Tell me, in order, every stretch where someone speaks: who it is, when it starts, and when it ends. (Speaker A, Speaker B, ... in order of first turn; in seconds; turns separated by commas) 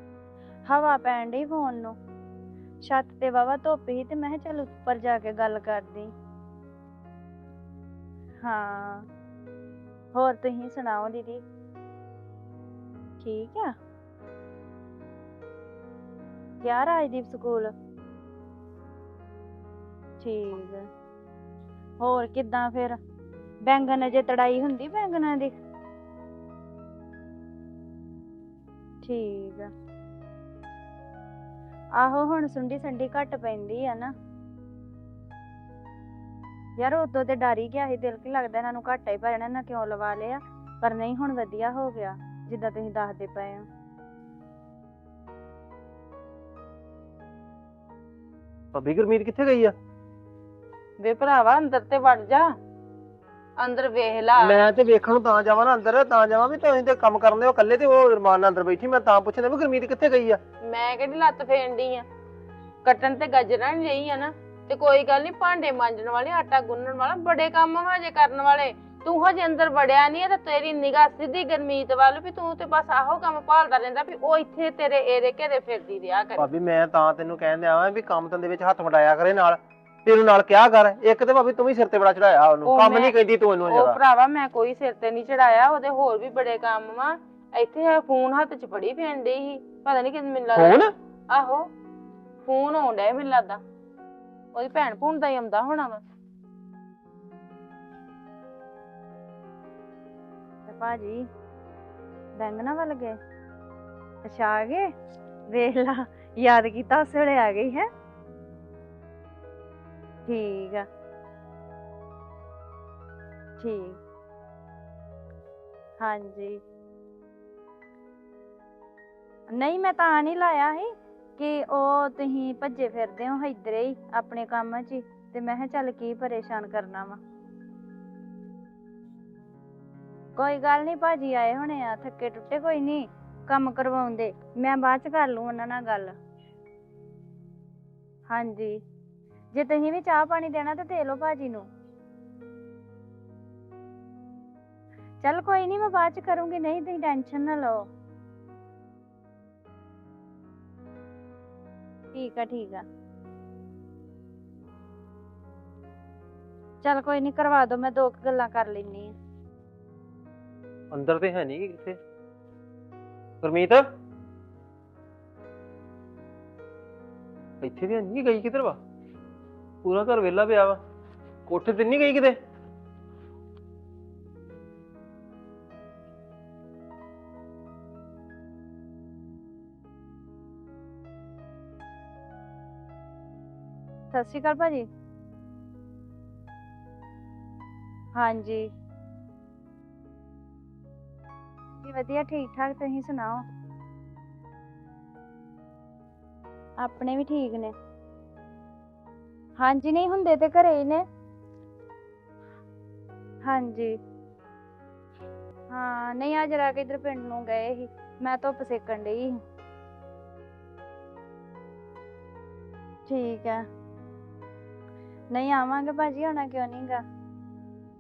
Speaker A: 0.7-2.0, Speaker A: 2.8-6.1, Speaker A: 8.4-9.1, Speaker A: 10.2-11.4, Speaker A: 13.2-13.7, Speaker A: 16.6-17.7, Speaker A: 20.2-20.9, Speaker A: 22.0-23.0, Speaker A: 23.7-25.5, Speaker A: 29.0-29.7, Speaker A: 32.0-34.1, Speaker A: 36.8-43.7, Speaker B: 48.7-49.8, Speaker C: 51.0-52.5, Speaker C: 53.6-54.6, Speaker B: 54.4-60.4, Speaker C: 60.6-62.1, Speaker C: 62.9-76.5, Speaker B: 76.4-84.0, Speaker C: 82.7-83.2, Speaker C: 83.7-91.6, Speaker B: 90.5-90.9, Speaker C: 92.5-93.6, Speaker C: 94.5-96.0, Speaker A: 100.7-101.2, Speaker A: 102.4-103.1, Speaker A: 104.2-104.8, Speaker A: 105.5-107.9, Speaker A: 110.3-110.8, Speaker A: 113.6-114.0, Speaker A: 116.0-116.6, Speaker A: 119.5-127.2, Speaker A: 130.4-136.1, Speaker A: 138.3-138.8, Speaker A: 139.5-141.7, Speaker A: 145.2-147.9, Speaker A: 152.2-152.8, Speaker A: 156.8-159.1, Speaker B: 160.9-162.0, Speaker B: 163.4-163.8, Speaker B: 167.6-168.8, Speaker B: 169.8-170.8, Speaker B: 171.5-172.4, Speaker A: 184.1-184.9, Speaker A: 188.2-188.7, Speaker A: 191.8-193.4, Speaker A: 196.8-197.7, Speaker A: 199.6-201.0, Speaker A: 203.4-204.0, Speaker A: 205.7-209.3, Speaker A: 213.1-213.6, Speaker A: 215.3-217.0